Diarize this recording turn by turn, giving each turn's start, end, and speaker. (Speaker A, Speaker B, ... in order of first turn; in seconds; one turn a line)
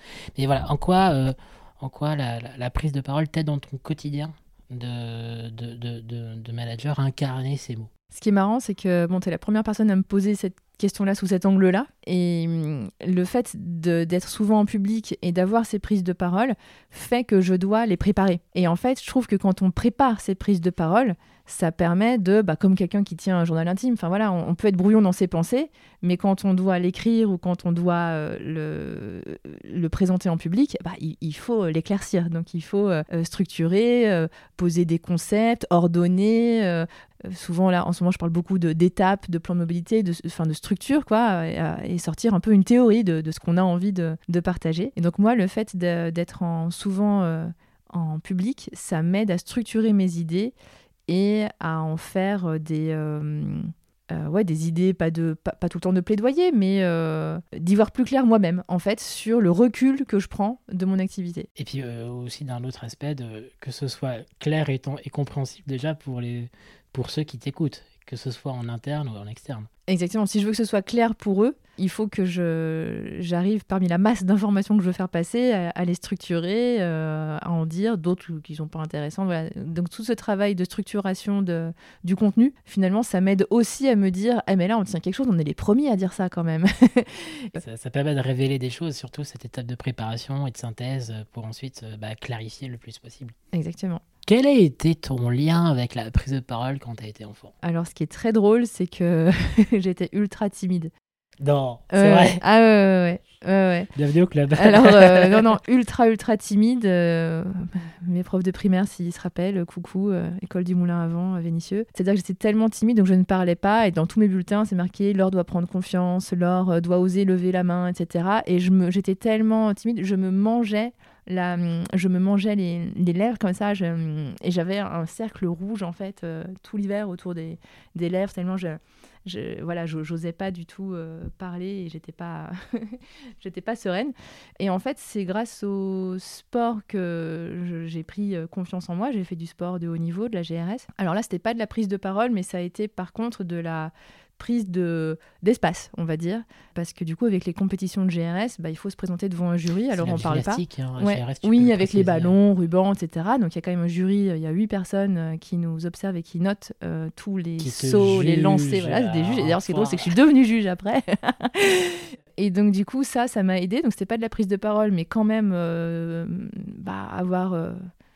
Speaker A: 0.4-7.9
Speaker B: 8.1-50.5
Speaker B: 51.1-61.5
Speaker A: 61.6-69.7
Speaker B: 69.9-87.6
Speaker A: 87.6-93.3
Speaker B: 93.5-94.0
Speaker A: 94.3-97.5
Speaker B: 97.6-100.9
Speaker A: 101.4-102.4
Speaker B: 101.9-103.9
Speaker A: 104.0-105.5
Speaker B: 104.6-167.8
Speaker A: 149.9-152.4
Speaker A: 157.6-160.2